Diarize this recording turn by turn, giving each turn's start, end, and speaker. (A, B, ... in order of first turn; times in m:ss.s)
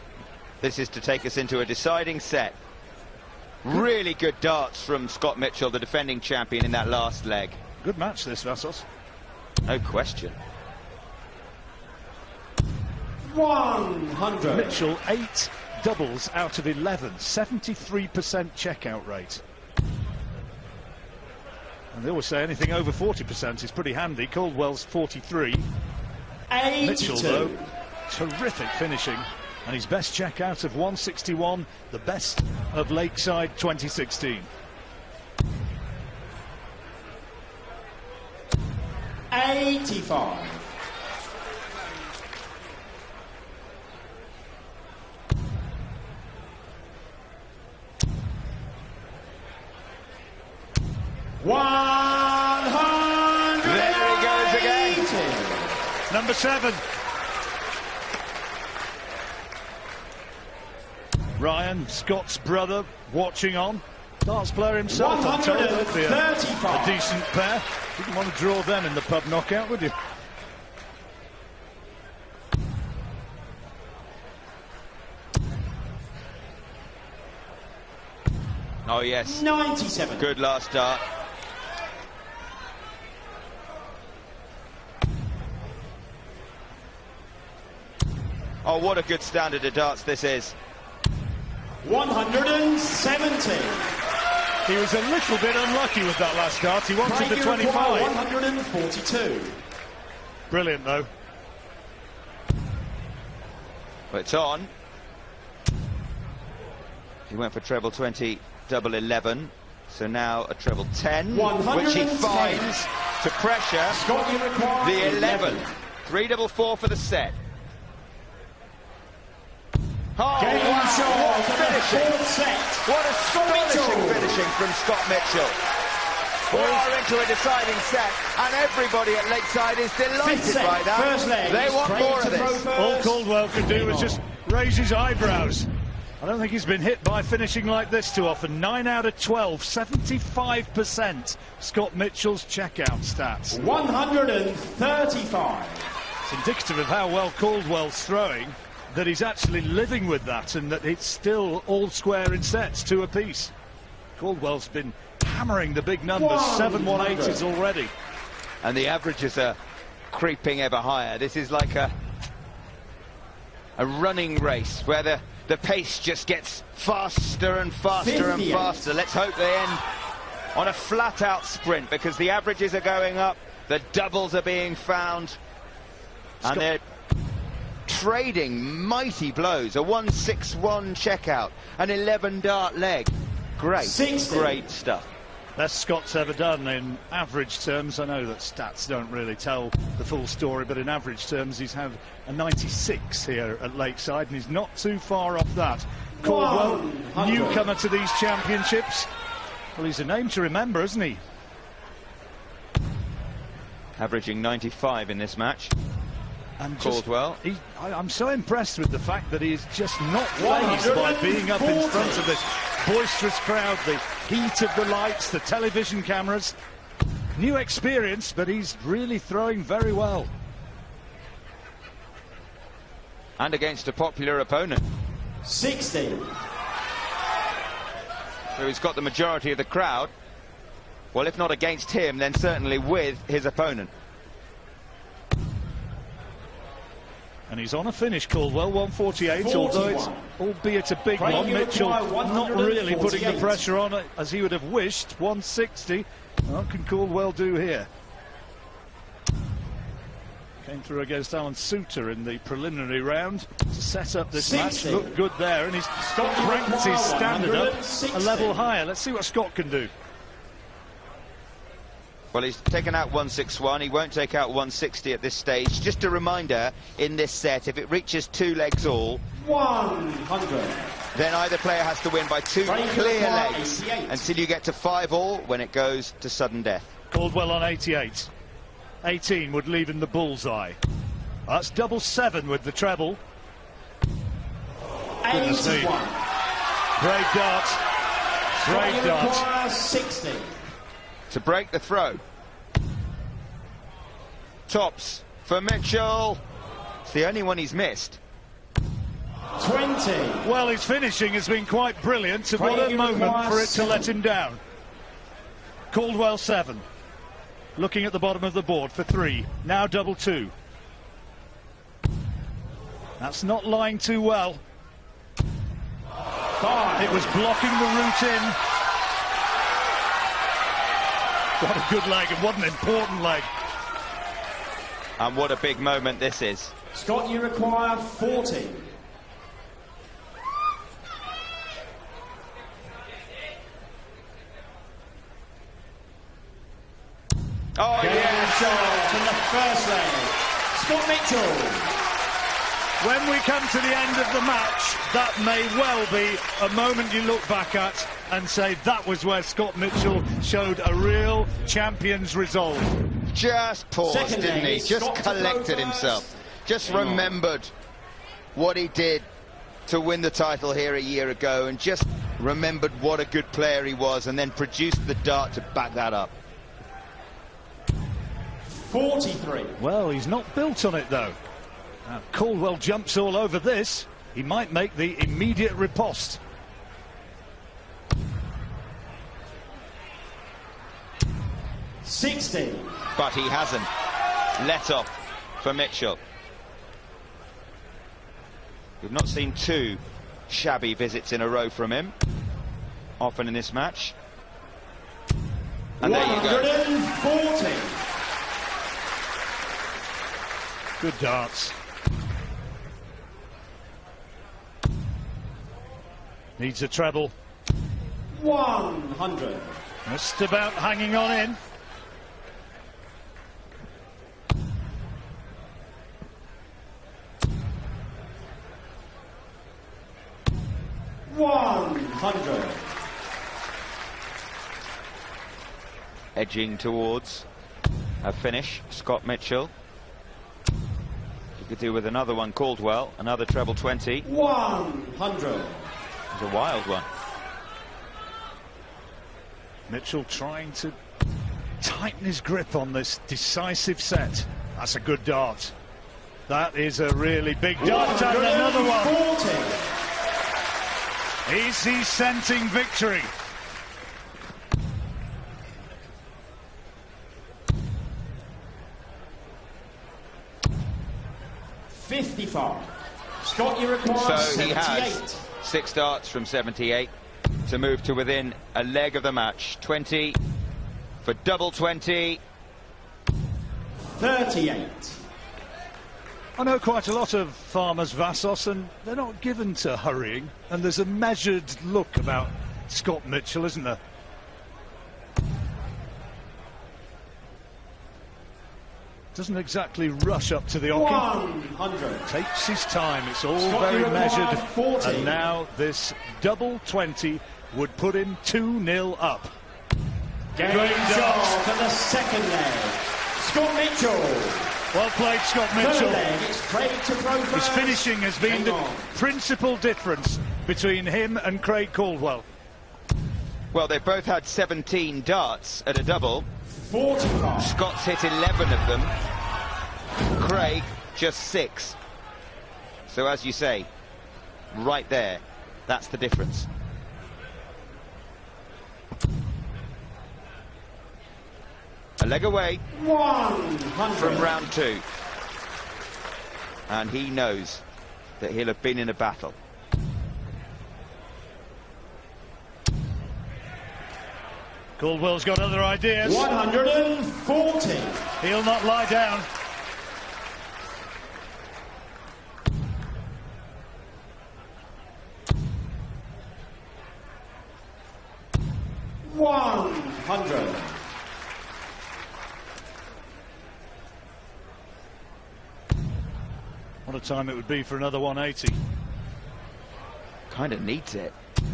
0:00.6-0:02.6 A
0:03.6-0:07.6 A
0:07.8-0:08.8 B
0:09.6-0:10.4 A
0:13.3-0:14.9 C
0:14.5-0:19.4 B
0:21.9-0:25.7 B
0:26.5-0:27.7 C
0:26.8-0:27.6 B
0:28.1-0:34.5 B
0:39.3-0:40.6 C
0:51.4-0:55.7 C
0:53.6-0:55.0 A
0:56.1-0:56.8 B
1:01.4-1:09.9 B
1:04.9-1:07.1 C
1:18.8-1:19.4 A
1:19.2-1:20.3 C
1:20.2-1:21.0 A
1:28.6-1:30.6 A
1:31.8-1:33.9 C
1:34.7-1:38.1 B
1:37.0-1:39.6 C
1:40.5-1:41.1 B
1:44.1-1:44.7 A
1:47.3-1:54.0 A
1:51.3-1:52.8 C
1:53.9-1:55.7 C
1:54.8-1:57.4 A
2:00.2-2:02.2 A
2:00.4-2:04.4 C
2:02.8-2:05.6 A
2:06.5-2:12.6 A
2:10.2-2:14.2 C
2:12.7-2:15.7 B
2:16.2-2:23.6 B
2:23.5-2:25.9 C
2:26.2-2:33.5 B
2:34.2-2:37.9 B
2:36.1-2:37.4 C
2:38.6-2:39.6 A
2:40.1-2:41.9 A
2:43.8-2:49.8 A
2:47.9-2:48.9 C
2:50.5-2:55.4 A
2:56.4-2:56.7 B
2:56.4-2:56.8 A
2:57.8-3:05.1 A
3:03.8-3:04.6 C
3:05.6-3:19.1 B
3:16.2-3:17.7 C
3:19.7-3:21.2 B
3:24.0-3:25.7 A
3:26.6-3:36.5 B
3:26.8-3:27.4 A
3:30.3-3:32.4 C
3:37.4-3:40.3 B
3:43.4-3:44.8 A
3:45.4-3:46.3 C
3:48.5-3:50.1 A
3:51.1-3:53.9 A
3:57.5-4:07.9 B
3:59.3-4:00.3 C
4:01.1-4:03.7 C
4:10.6-4:19.9 B
4:14.3-4:15.2 C
4:16.0-4:18.6 C
4:22.3-4:29.2 A
4:29.4-4:31.0 C
4:31.1-4:36.9 A
4:32.6-4:34.4 C
4:37.1-4:38.3 B
4:39.0-4:40.8 B
4:41.5-4:43.2 B
4:45.2-4:46.2 C
4:45.3-4:46.0 B
4:47.0-4:47.8 B
4:48.6-4:49.4 B
4:48.6-4:50.6 C
4:51.3-4:52.2 A
4:54.7-4:56.4 A
4:57.0-4:58.2 A
4:59.6-5:00.5 C
5:00.4-5:04.6 B
5:02.5-5:04.1 C
5:05.9-5:06.8 B
5:07.8-5:10.5 B
5:13.2-5:14.6 B
5:16.6-5:17.3 C
5:17.0-5:18.6 B
5:21.6-5:23.5 B
5:25.2-5:26.7 A
5:26.9-5:28.9 C
5:37.8-5:38.6 A
5:38.0-5:41.9 C
5:43.0-5:52.9 B
5:53.3-5:57.7 A
5:54.0-5:57.4 C
5:58.5-5:59.3 A
5:59.9-6:06.3 A
6:08.6-6:09.8 C
6:09.8-6:11.4 B
6:12.0-6:16.4 B
6:22.0-6:23.0 C
6:23.2-6:23.9 A
6:24.6-6:26.2 A
6:29.0-6:32.1 A
6:33.2-6:34.1 A
6:36.0-6:38.0 C
6:36.0-6:36.7 A
6:41.0-6:41.7 B
6:46.6-6:47.3 B
6:48.3-6:49.8 C
6:50.0-6:51.6 B
7:01.3-7:02.9 C
7:06.4-7:07.5 A
7:08.2-7:09.7 A
7:11.6-7:14.3 A
7:14.2-7:15.9 C
7:16.3-7:17.1 A
7:19.9-7:20.9 B
7:21.8-7:25.7 B
7:26.5-7:29.2 B
7:27.8-7:29.8 C
7:31.5-7:33.3 B
7:41.9-7:42.9 C
7:43.4-7:45.4 C
7:44.1-7:47.1 A
7:47.6-7:50.4 A
7:51.2-7:52.4 A
7:54.0-7:55.2 C
7:56.6-8:04.0 B
8:09.3-8:11.3 B
8:10.9-8:12.3 C
8:12.3-8:19.5 B
8:13.6-8:15.4 C
8:20.5-8:24.7 C
8:20.6-8:21.6 B
8:24.9-8:26.2 B
8:25.7-8:29.1 C
8:27.5-8:32.4 B
8:33.7-8:36.5 A
8:36.7-8:37.7 C
8:37.6-8:39.1 A
8:40.4-8:42.0 A
8:43.1-8:43.9 A
8:44.7-8:46.7 A
8:52.2-8:52.8 A
8:52.9-8:54.6 C
8:54.2-8:55.0 A
8:56.9-8:57.8 A
8:58.4-8:59.6 A
9:05.0-9:06.5 B
9:06.2-9:08.2 C
9:08.4-9:09.5 B
9:19.2-9:21.0 C
9:27.0-9:28.8 B
9:30.5-9:31.3 A